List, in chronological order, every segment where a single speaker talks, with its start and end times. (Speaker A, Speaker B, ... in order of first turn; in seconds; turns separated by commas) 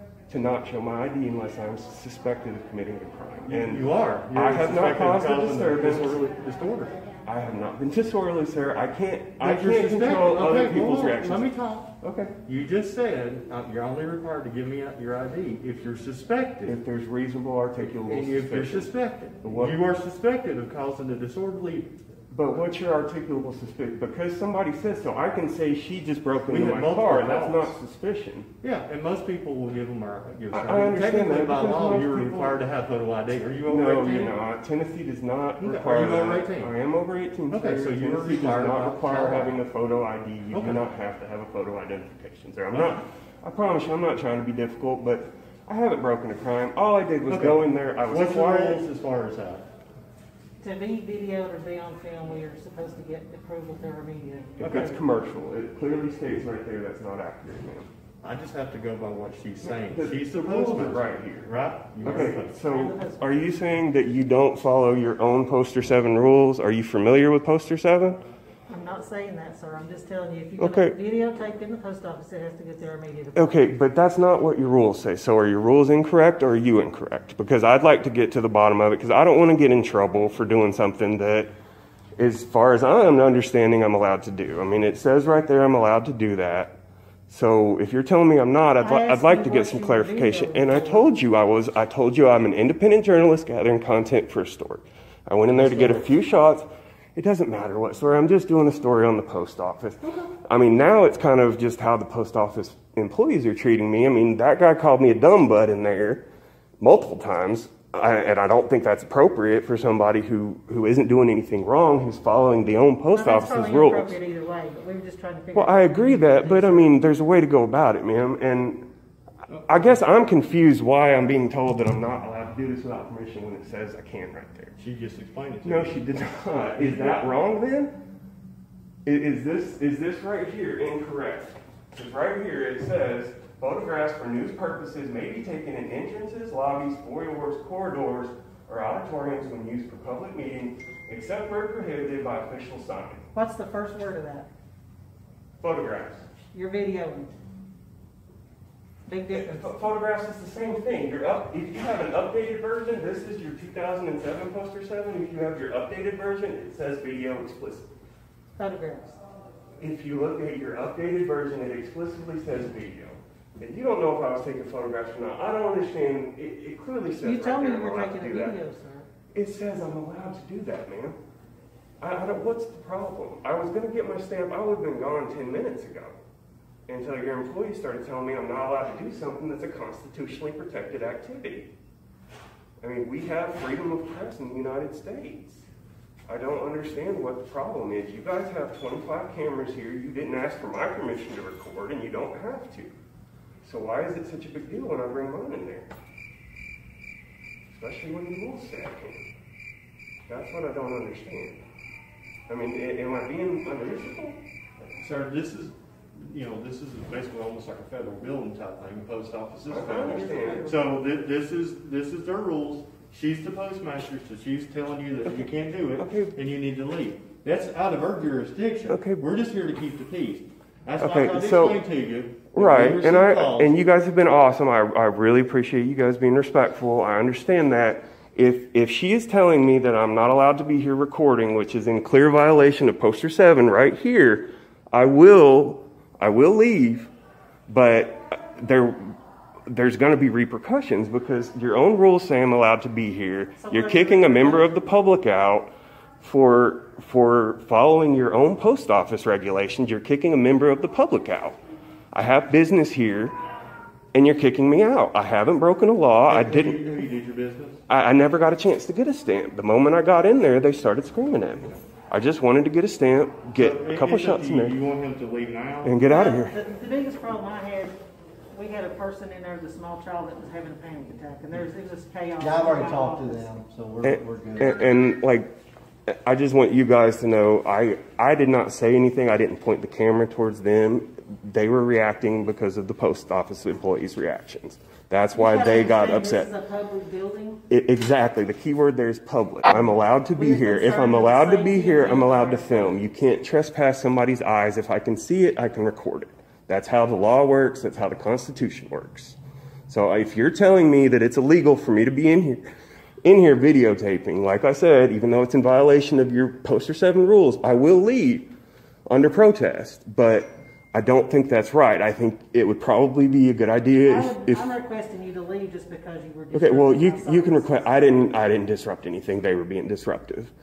Speaker A: 0.3-6.2, Speaker B: 3.5-7.0, Speaker A: 7.2-12.3, Speaker B: 9.4-16.8, Speaker A: 16.6-19.8, Speaker B: 18.0-21.9, Speaker A: 22.3-28.5, Speaker B: 26.4-27.7, Speaker B: 28.6-34.4, Speaker A: 30.5-32.6, Speaker A: 33.7-48.8, Speaker B: 35.6-36.7, Speaker B: 37.5-39.7, Speaker B: 40.5-40.8, Speaker B: 42.7-43.0, Speaker B: 47.3-49.7, Speaker C: 50.6-54.8, Speaker A: 54.6-57.9, Speaker B: 54.6-55.0, Speaker B: 58.2-62.5, Speaker A: 59.6-68.2, Speaker C: 62.1-63.2, Speaker C: 68.7-73.7, Speaker A: 70.6-71.0, Speaker A: 73.3-81.5, Speaker A: 82.2-106.2, Speaker C: 88.8-91.1, Speaker B: 95.6-96.0, Speaker A: 106.8-114.2, Speaker C: 113.1-117.0, Speaker A: 115.5-118.8, Speaker B: 119.5-120.0, Speaker A: 119.7-124.8, Speaker B: 124.8-126.0, Speaker A: 125.6-128.0, Speaker B: 126.6-127.2, Speaker A: 129.0-143.3, Speaker C: 143.3-144.5, Speaker A: 145.6-146.2, Speaker C: 146.5-147.3, Speaker C: 149.1-149.7, Speaker A: 149.3-157.9, Speaker C: 158.6-159.2, Speaker A: 159.8-168.6, Speaker C: 167.2-169.1, Speaker A: 169.3-171.2, Speaker A: 172.0-176.2, Speaker A: 176.9-181.7, Speaker A: 182.8-185.7, Speaker A: 186.2-192.9, Speaker A: 193.6-195.9, Speaker A: 197.7-199.3, Speaker A: 200.3-201.6, Speaker A: 202.5-204.4, Speaker B: 205.0-223.8, Speaker A: 209.7-211.0, Speaker A: 215.3-216.3, Speaker A: 218.9-219.2, Speaker A: 221.0-221.8, Speaker A: 222.5-237.1, Speaker A: 237.7-239.1, Speaker A: 239.7-251.6, Speaker C: 243.6-244.8, Speaker A: 252.1-253.3, Speaker A: 254.1-256.8, Speaker B: 256.3-257.8, Speaker A: 257.9-264.8, Speaker B: 263.5-265.9, Speaker A: 265.8-266.6, Speaker C: 266.0-267.9, Speaker C: 268.5-273.5, Speaker D: 272.4-274.7, Speaker A: 274.0-275.6, Speaker A: 276.1-286.5, Speaker C: 285.3-287.6, Speaker A: 287.7-299.4, Speaker C: 290.4-293.0, Speaker A: 299.9-302.6, Speaker A: 303.2-308.5, Speaker A: 309.1-314.7, Speaker C: 314.1-317.9, Speaker A: 316.5-320.5